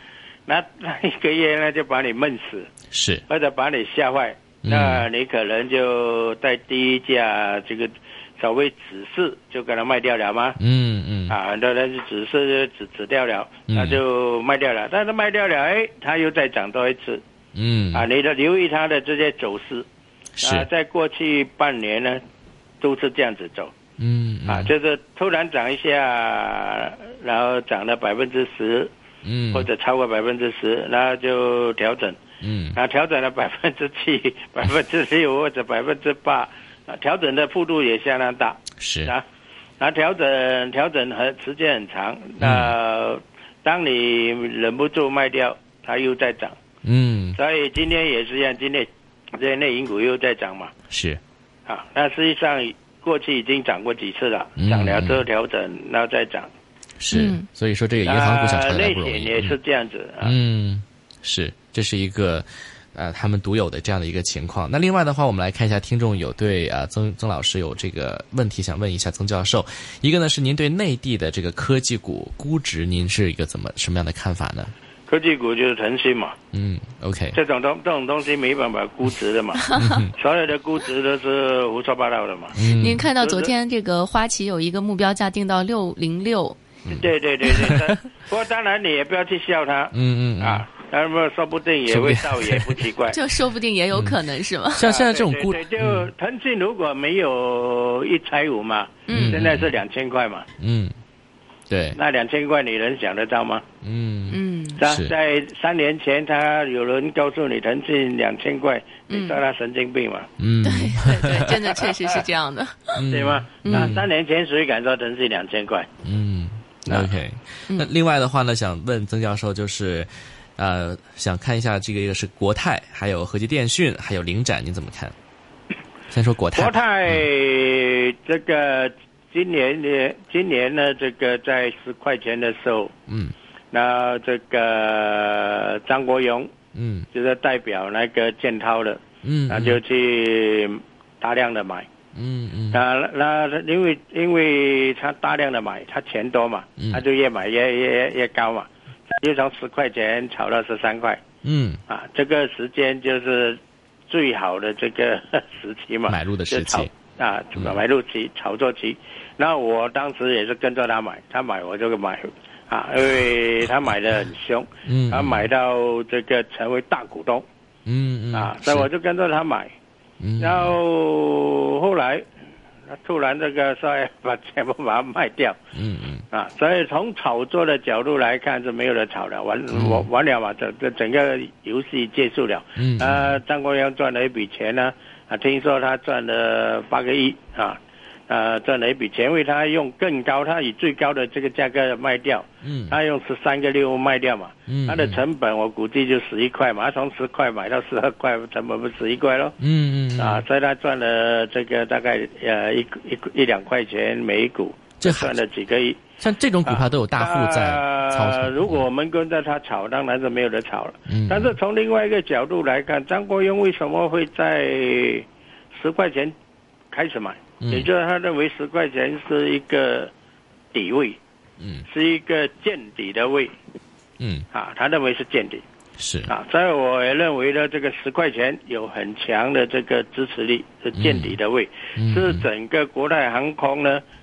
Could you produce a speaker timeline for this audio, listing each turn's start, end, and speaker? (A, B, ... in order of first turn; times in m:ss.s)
0:00.5-0:02.7 A
0:02.9-0:03.2 B
0:03.3-0:10.6 A
0:04.6-0:05.0 B
0:10.6-0:11.4 B
0:11.3-0:17.2 A
0:13.7-0:14.0 B
0:17.6-0:18.0 B
0:17.9-0:19.9 A
0:20.4-0:20.7 B
0:20.4-0:22.2 A
0:22.8-0:23.7 A
0:24.0-0:24.7 B
0:24.5-0:28.9 A
0:29.2-0:29.7 B
0:29.5-0:32.2 A
0:32.4-0:32.8 B
0:32.7-0:39.2 A
0:38.8-0:39.1 B
0:39.8-0:46.6 A
0:42.4-0:42.7 B
0:46.8-0:47.4 B
0:47.4-0:50.7 A
0:50.9-0:51.2 B
0:51.7-0:56.5 A
0:54.6-0:55.2 B
0:57.0-0:59.6 B
0:57.1-0:57.4 C
0:58.0-1:00.4 A
1:00.2-1:14.7 B
1:15.1-1:16.4 A
1:16.5-1:17.4 B
1:17.3-1:22.6 A
1:19.6-1:20.0 C
1:19.8-1:20.1 B
1:22.5-1:23.1 B
1:22.6-1:26.7 C
1:23.2-1:23.5 A
1:27.0-1:33.2 A
1:27.4-1:27.7 C
1:29.9-1:30.6 B
1:31.9-1:32.7 B
1:33.1-1:34.8 C
1:33.9-1:34.2 B
1:34.7-1:36.1 B
1:34.8-1:40.5 A
1:39.1-1:39.4 C
1:39.1-1:39.7 B
1:40.6-1:41.0 B
1:41.7-1:42.0 B
1:41.9-1:43.6 A
1:43.8-1:45.1 B
1:44.3-1:44.8 C
1:44.8-1:50.3 A
1:49.1-1:49.4 C
1:50.4-1:51.5 B
1:50.6-1:53.0 C
1:51.3-1:51.9 A
1:53.0-1:54.0 B
1:53.1-1:55.9 A
1:53.6-1:54.0 C
1:56.0-2:05.2 B
2:06.1-2:07.2 B
2:06.6-2:12.9 A
2:13.1-2:13.3 B
2:13.7-2:16.5 A
2:16.7-2:17.1 B
2:17.1-2:21.9 A
2:19.2-2:19.8 B
2:22.2-2:22.8 B
2:22.7-2:31.2 A
2:31.4-2:31.8 B
2:31.9-2:47.4 A
2:36.1-2:36.9 B
2:44.8-2:45.5 B
2:47.9-2:48.9 B
2:48.3-2:49.7 A
2:50.2-2:50.8 B
2:50.4-2:52.3 A
2:52.9-2:55.6 A
2:55.8-2:56.2 B
2:56.3-3:19.6 A
2:59.7-3:00.1 B
3:02.8-3:03.4 B
3:12.6-3:13.0 B
3:14.7-3:15.2 B
3:19.6-3:20.4 B
3:20.2-3:26.0 A
3:25.0-3:25.3 B
3:26.2-3:28.9 B
3:26.6-3:36.3 A
3:31.1-3:31.6 B
3:36.9-3:40.1 A
3:37.6-3:37.9 B
3:40.7-3:41.2 A
3:41.6-3:41.8 B
3:41.8-3:43.5 A
3:44.2-3:44.5 B
3:44.5-3:45.6 A
3:46.0-3:46.3 B
3:46.3-3:54.0 A
3:51.0-3:51.4 B
3:52.0-3:52.5 B